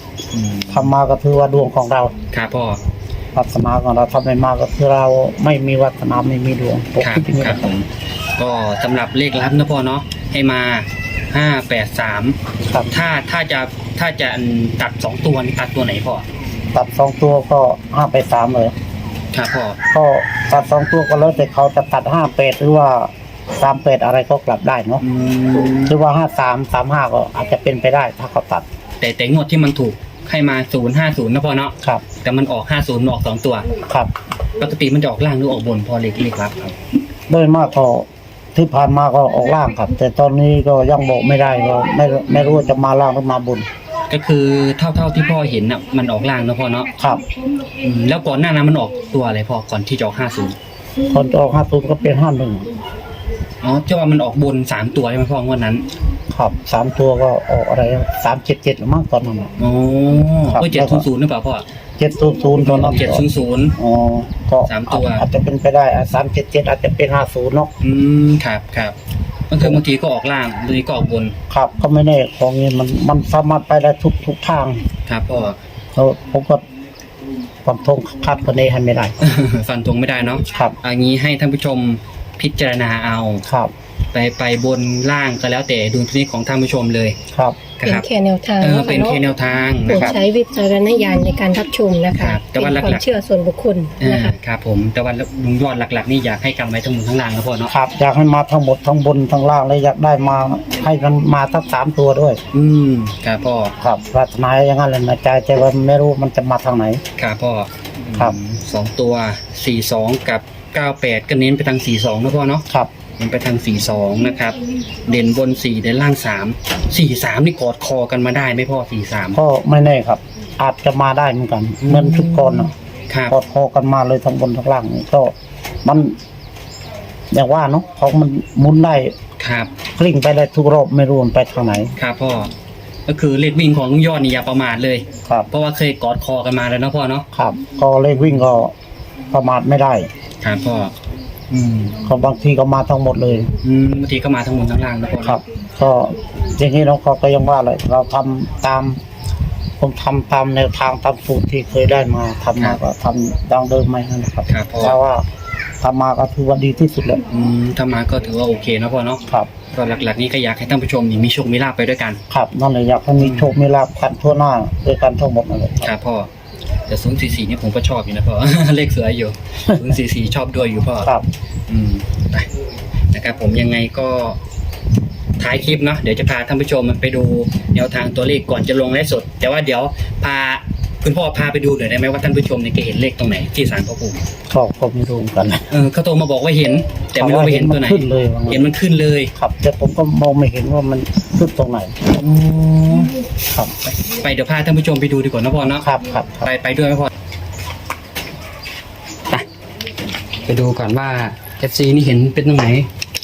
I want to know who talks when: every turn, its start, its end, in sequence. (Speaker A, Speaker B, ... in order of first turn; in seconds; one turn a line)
Speaker A: 0.3-0.9
Speaker B: 0.7-2.1
Speaker A: 2.3-2.8
Speaker B: 3.3-7.6
Speaker A: 7.0-16.2
Speaker B: 16.7-18.7
Speaker A: 19.3-19.8
Speaker B: 19.9-25.0
Speaker A: 25.0-25.9
Speaker B: 25.9-28.6
Speaker A: 29.0-33.7
Speaker B: 33.8-34.1
Speaker A: 34.6-36.7
Speaker B: 37.3-43.7
Speaker A: 44.1-46.9
Speaker B: 47.0-47.2
Speaker A: 47.8-50.5
Speaker B: 51.1-52.7
Speaker A: 53.6-55.9
Speaker B: 56.3-59.5
Speaker A: 59.6-61.6
Speaker B: 60.5-61.0
Speaker B: 62.0-63.2
Speaker A: 62.6-63.8
Speaker B: 63.8-67.7
Speaker A: 64.6-65.2
Speaker A: 67.8-69.0
Speaker A: 69.5-71.3
Speaker B: 71.5-74.8
Speaker A: 75.0-75.6
Speaker B: 75.9-76.6
Speaker B: 77.6-79.2
Speaker A: 79.2-83.4
Speaker B: 83.5-83.7
Speaker A: 84.1-87.2
Speaker B: 87.3-87.6
Speaker A: 87.8-88.0
Speaker C: 87.8-89.2
Speaker A: 88.6-90.2
Speaker C: 89.9-94.3
Speaker A: 92.1-93.0
Speaker A: 94.0-97.7
Speaker B: 97.7-102.4
Speaker A: 102.5-103.7
Speaker B: 103.8-107.0
Speaker A: 107.2-112.7
Speaker A: 113.2-119.4
Speaker B: 119.3-122.7
Speaker A: 121.8-123.3
Speaker B: 123.3-126.1
Speaker B: 127.3-129.1
Speaker A: 129.4-129.7
Speaker B: 129.9-131.9
Speaker A: 131.9-132.5
Speaker A: 133.1-137.3
Speaker B: 137.3-138.7
Speaker A: 138.1-138.4
Speaker B: 139.3-140.1
Speaker A: 140.4-140.9
Speaker A: 141.5-142.0
Speaker B: 142.0-143.5
Speaker A: 143.6-145.4
Speaker B: 145.2-149.0
Speaker B: 149.8-155.2
Speaker A: 154.5-155.0
Speaker B: 155.8-157.2
Speaker A: 157.3-162.2
Speaker B: 162.3-165.9
Speaker A: 163.2-163.5
Speaker A: 165.8-166.3
Speaker A: 166.9-171.1
Speaker A: 171.7-172.5
Speaker A: 173.1-174.4
Speaker A: 175.4-184.2
Speaker B: 184.5-185.7
Speaker A: 185.7-189.3
Speaker B: 187.2-188.7
Speaker B: 189.3-192.0
Speaker A: 192.1-193.1
Speaker A: 193.8-195.8
Speaker B: 195.7-196.4
Speaker A: 196.4-197.1
Speaker A: 200.4-202.9